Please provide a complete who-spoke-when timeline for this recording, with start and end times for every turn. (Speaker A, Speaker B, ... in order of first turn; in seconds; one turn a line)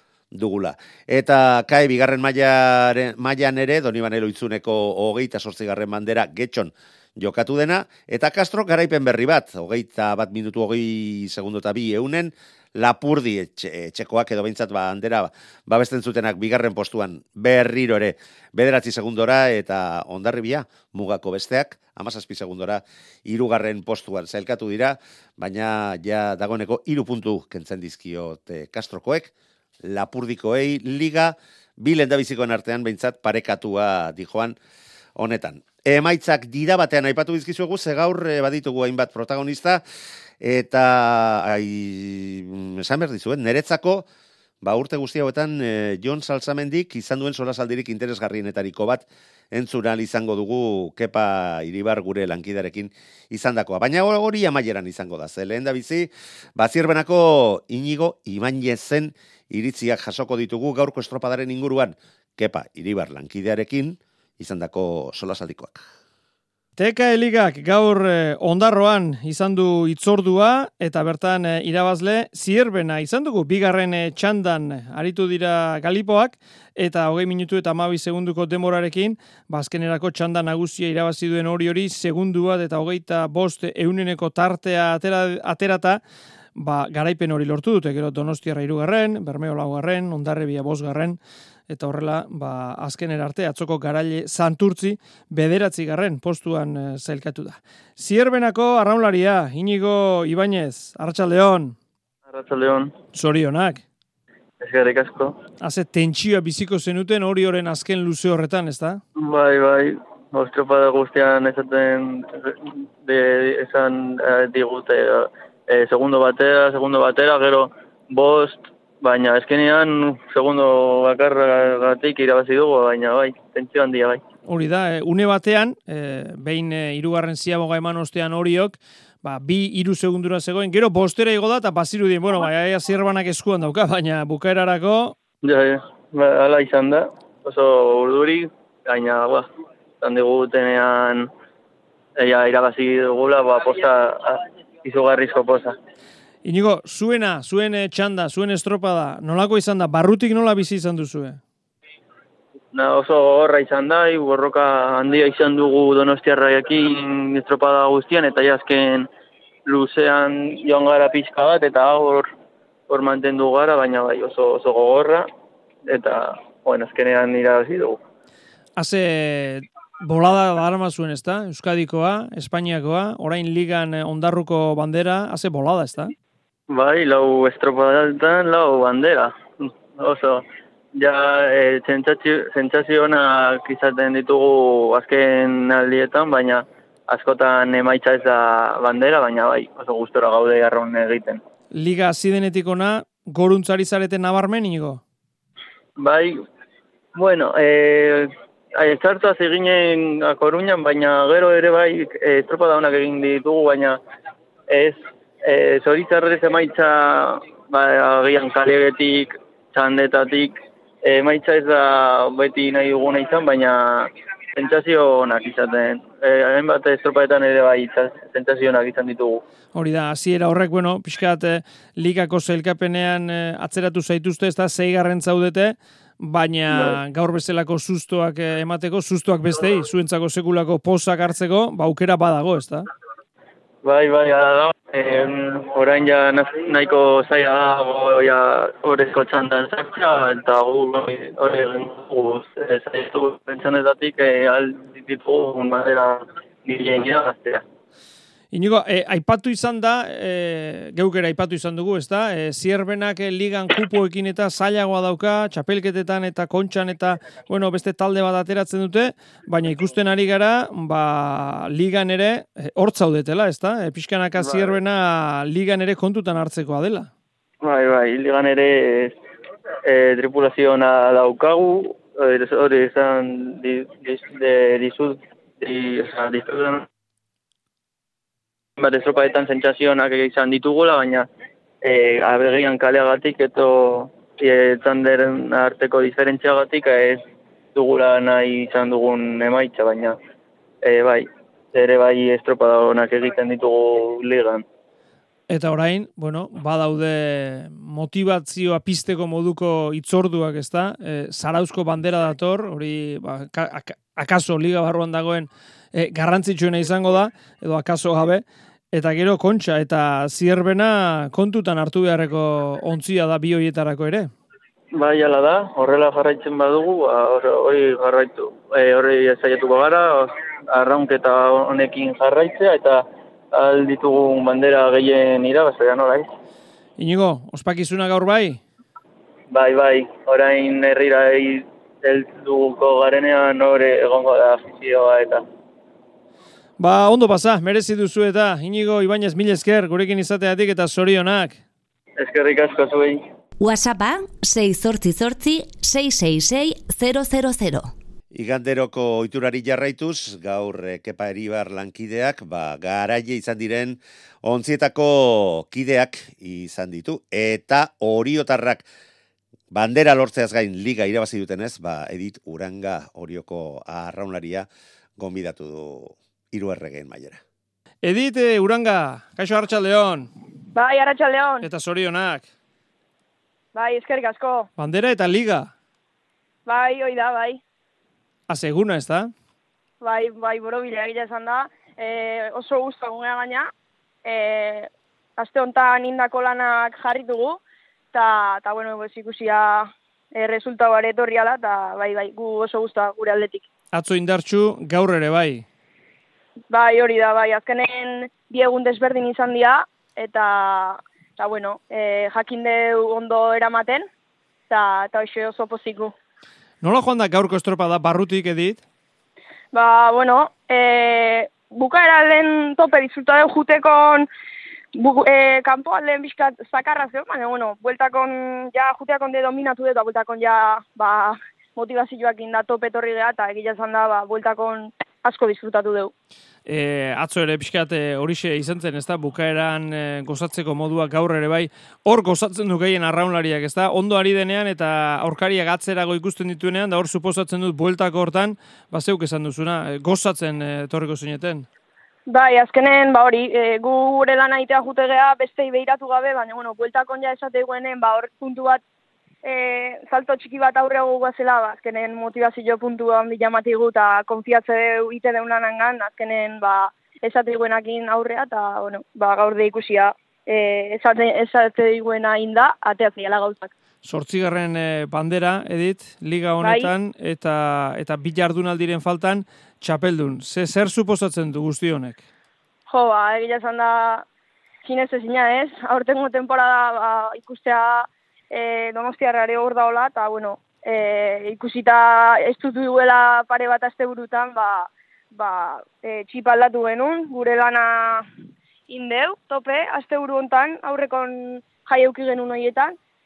Speaker A: 0.3-29.3
Speaker A: 29.8-34.6
Speaker A: 35.2-39.8
Speaker A: 40.4-44.0
Speaker A: 44.6-65.8
Speaker B: 66.8-86.0
Speaker B: 86.5-101.7
Speaker C: 102.3-102.9
Speaker B: 103.1-103.8
Speaker C: 104.6-105.4
Speaker B: 105.6-109.0
Speaker C: 109.2-124.2
Speaker B: 124.5-135.2
Speaker C: 135.4-139.5
Speaker C: 140.0-141.3
Speaker C: 142.2-145.8
Speaker B: 146.4-151.4
Speaker C: 152.7-159.1
Speaker C: 159.7-162.3
Speaker C: 162.9-165.3
Speaker C: 165.8-168.0
Speaker B: 168.8-176.1
Speaker C: 176.7-191.4
Speaker B: 191.7-195.0
Speaker C: 196.0-196.4
Speaker C: 197.1-204.0
Speaker C: 204.7-219.4
Speaker B: 219.7-232.9
Speaker C: 226.7-227.0
Speaker C: 233.8-247.6
Speaker B: 248.5-267.1
Speaker C: 264.4-264.8
Speaker C: 267.6-269.2
Speaker C: 269.9-276.9
Speaker C: 278.8-281.3
Speaker C: 281.8-287.2
Speaker C: 287.7-290.2
Speaker C: 290.8-294.6
Speaker B: 295.5-314.3
Speaker C: 314.9-326.3
Speaker B: 327.0-328.6
Speaker C: 329.5-335.4
Speaker B: 336.8-341.6
Speaker C: 342.2-343.2
Speaker D: 343.6-347.9
Speaker A: 348.3-358.8
Speaker A: 359.7-367.4
Speaker B: 368.0-370.3
Speaker E: 370.7-371.6
Speaker B: 371.6-372.4
Speaker E: 373.7-374.7
Speaker B: 374.8-375.7
Speaker E: 376.6-377.6
Speaker B: 378.5-379.3
Speaker E: 380.0-383.7
Speaker E: 384.2-387.6
Speaker E: 388.1-393.6
Speaker B: 393.9-395.6
Speaker E: 396.7-404.1
Speaker E: 404.7-406.1
Speaker B: 406.8-408.8
Speaker E: 409.7-414.3
Speaker E: 414.9-426.1
Speaker B: 426.6-441.7
Speaker E: 442.3-448.8
Speaker E: 449.4-463.7
Speaker B: 464.0-472.2
Speaker E: 466.6-466.9
Speaker E: 472.9-474.2
Speaker E: 474.8-488.2
Speaker E: 488.9-492.9